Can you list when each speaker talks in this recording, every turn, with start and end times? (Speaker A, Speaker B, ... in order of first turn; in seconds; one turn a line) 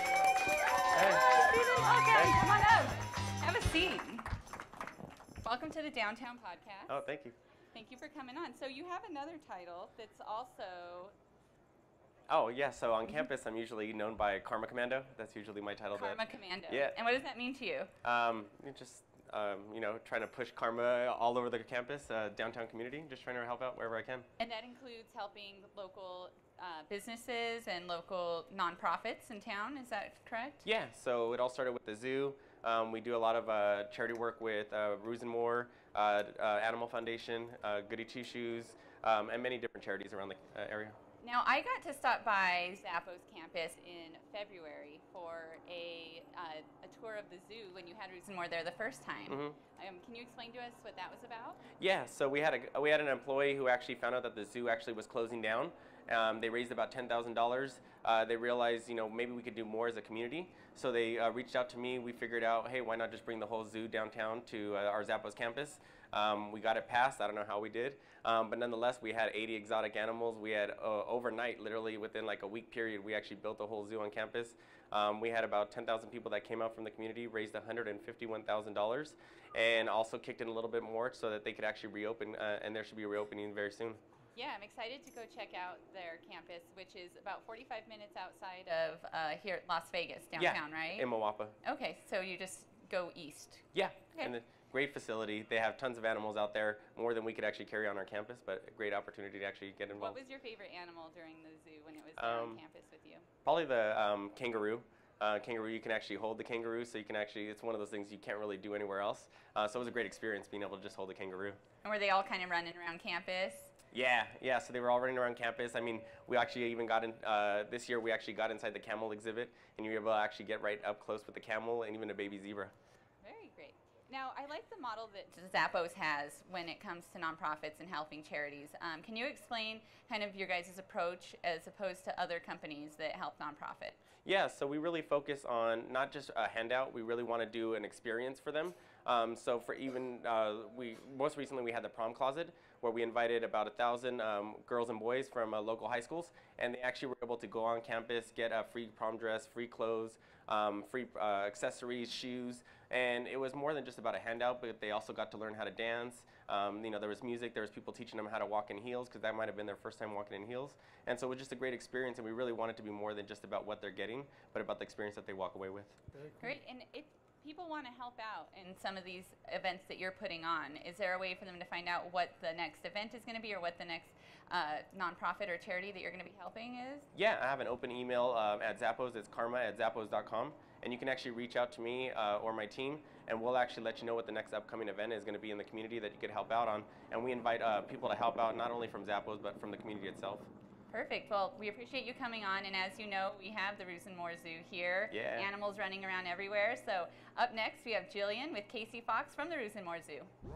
Speaker A: 0.9-1.3
Speaker B: 1.1-4.3
Speaker A: 2.1-2.4
Speaker B: 5.4-7.0
Speaker A: 6.9-7.3
Speaker B: 7.7-11.1
Speaker A: 12.3-16.9
Speaker B: 15.9-17.9
Speaker A: 18.0-24.3
Speaker B: 24.4-30.6
Speaker A: 30.6-41.0
Speaker B: 41.2-51.6
Speaker A: 49.3-49.6
Speaker A: 51.8-84.0
Speaker B: 84.3-91.1
Speaker A: 90.4-91.5
Speaker B: 91.6-94.3
Speaker A: 93.7-100.2
Speaker B: 100.0-103.3
Speaker A: 102.2-102.6
Speaker A: 103.4-111.6
Speaker B: 111.8-113.7
Speaker A: 113.9-122.7
Speaker B: 123.2-134.0
Speaker A: 134.2-166.0
Speaker B: 166.4-177.1
Speaker A: 177.1-190.5
Speaker B: 190.9-200.3
Speaker A: 195.1-195.5